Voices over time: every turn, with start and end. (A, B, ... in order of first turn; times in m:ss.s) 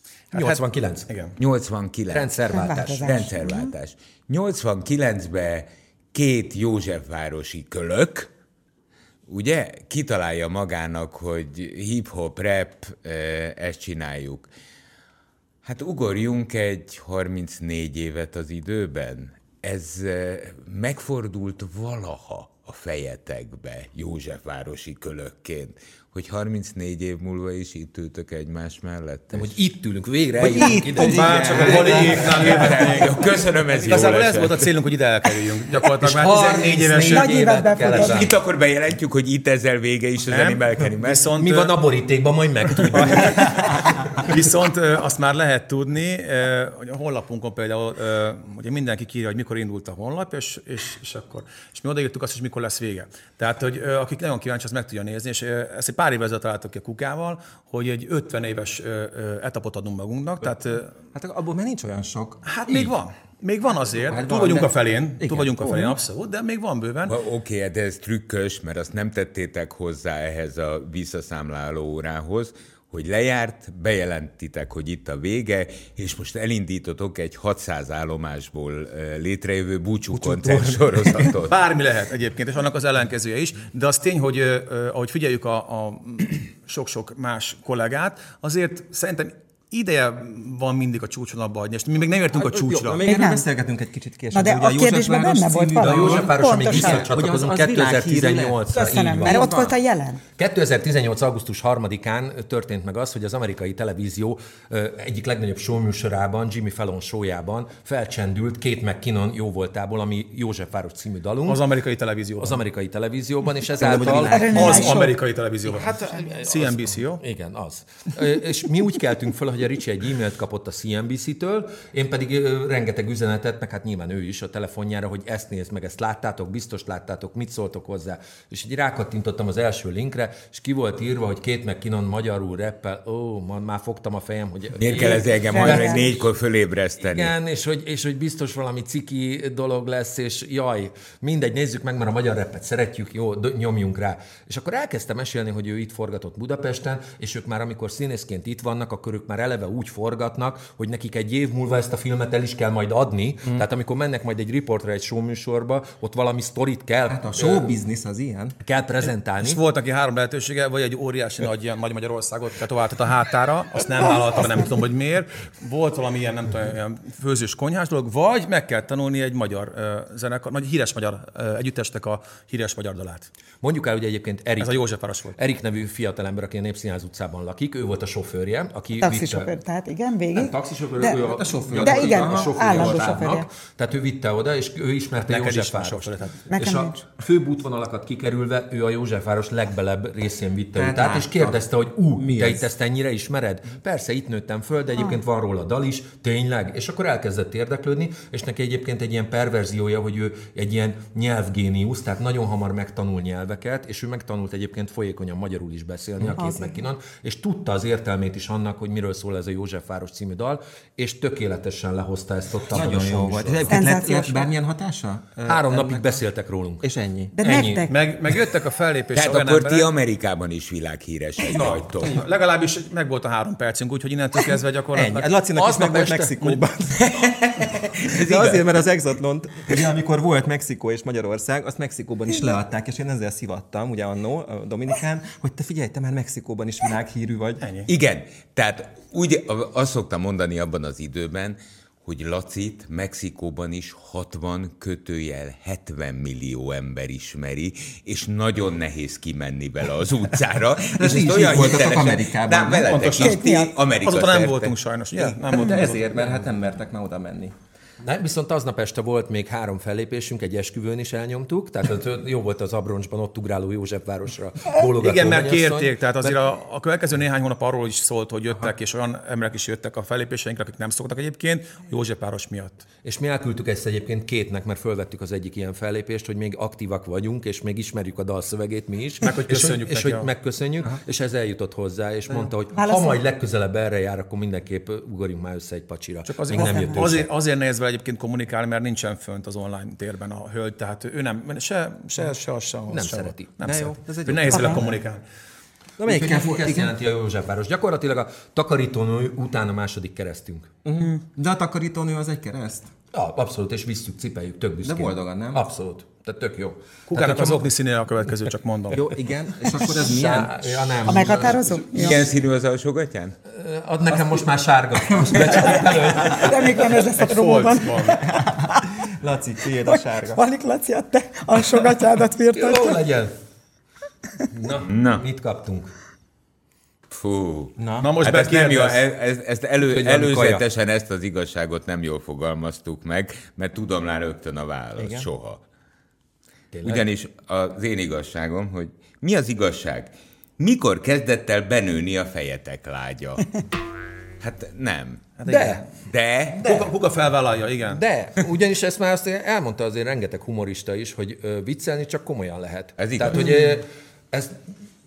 0:00.3-0:01.4 A
0:00.3-0:01.1 B
0:01.4-0:02.4 C
0:02.1-0:03.3 B
0:02.5-0:03.7 D
0:02.9-0:08.3 C
0:09.3-0:14.5 C
0:15.6-0:29.5 C
0:29.3-0:32.2 B
0:30.4-0:37.3 A
0:30.4-0:32.5 E
0:32.3-0:34.7 C
0:36.0-0:38.3 B
0:37.0-0:38.3 D
0:37.8-0:41.3 C
0:40.3-0:41.7 A
0:41.4-0:43.7 B
0:42.9-1:00.9 A
1:01.1-1:02.5 E
1:02.5-1:07.2 A
1:04.1-1:06.0 E
1:07.1-1:21.6 C
1:20.1-1:21.3 E
1:21.5-1:33.0 A
1:32.3-1:39.8 E
1:33.1-1:33.4 D
1:34.3-1:37.1 D
1:35.8-1:39.5 B
1:38.7-1:40.2 D
1:40.4-1:51.6 B
1:51.5-1:52.6 A
1:52.4-1:54.9 B
1:53.8-1:55.0 E
1:54.2-1:55.2 D
1:54.5-1:57.2 A
1:55.8-2:16.3 B
2:14.8-2:17.3 C
2:15.5-2:16.1 D
2:17.0-2:37.7 B
2:37.1-2:38.6 E
2:38.6-2:39.6 B
2:39.4-2:53.3 A
2:53.6-2:54.8 B
2:54.6-2:55.4 A
2:55.4-2:59.5 B
2:59.0-3:01.2 D
3:00.4-3:33.8 B
3:01.0-3:03.1 E
3:01.8-3:03.5 D
3:05.3-3:06.4 A
3:06.5-3:07.0 D
3:10.8-3:11.6 E
3:12.2-3:12.7 E
3:26.4-3:26.7 D
3:32.7-3:36.2 E
3:33.7-3:34.4 D
3:35.5-3:36.9 B
3:36.8-3:37.4 E
3:37.4-3:37.9 D
3:37.4-3:37.9 B
3:37.9-3:39.9 A
3:39.1-3:42.2 C
3:41.5-3:45.6 A
3:44.9-3:47.1 E
3:45.6-3:46.2 B
3:47.0-3:48.6 C
3:48.0-3:57.6 E
3:57.6-3:57.9 A
3:57.9-4:15.4 C
4:10.9-4:13.1 E
4:12.9-4:13.4 A
4:13.2-4:13.7 D
4:14.0-4:16.0 A
4:15.5-4:17.5 E
4:18.0-4:26.4 B
4:25.0-4:32.8 A
4:33.0-4:47.3 B
4:39.2-4:40.3 A
4:42.8-4:43.2 D
4:46.3-4:55.2 A
4:46.5-4:47.0 D
4:52.9-4:53.6 B
4:53.6-4:55.0 E
4:54.5-4:54.8 D
4:56.0-4:56.9 E
4:56.0-5:00.7 B
5:00.8-5:02.9 E
5:03.1-5:07.7 B
5:04.8-5:05.6 E
5:07.1-5:09.1 A
5:08.9-5:11.3 E
5:09.8-5:11.8 B
5:11.1-5:12.3 D
5:11.9-5:13.4 C
5:13.5-5:16.7 B
5:15.0-5:15.7 E
5:15.8-5:18.8 D
5:17.2-5:18.2 A
5:19.0-5:20.4 E
5:19.9-5:23.0 D
5:22.5-5:23.3 B
5:24.5-5:25.9 B
5:24.8-5:25.2 C
5:27.1-5:35.6 C
5:27.8-5:28.1 E
5:28.0-5:29.0 A
5:29.9-5:30.6 B
5:35.0-5:35.3 E
5:36.7-5:37.1 B
5:36.8-5:43.6 C
5:44.4-5:45.4 C
5:45.4-5:45.9 A
5:45.5-5:45.8 B
5:46.1-5:46.9 C
5:46.6-5:48.0 A
5:47.9-5:54.6 B
5:53.0-5:53.6 C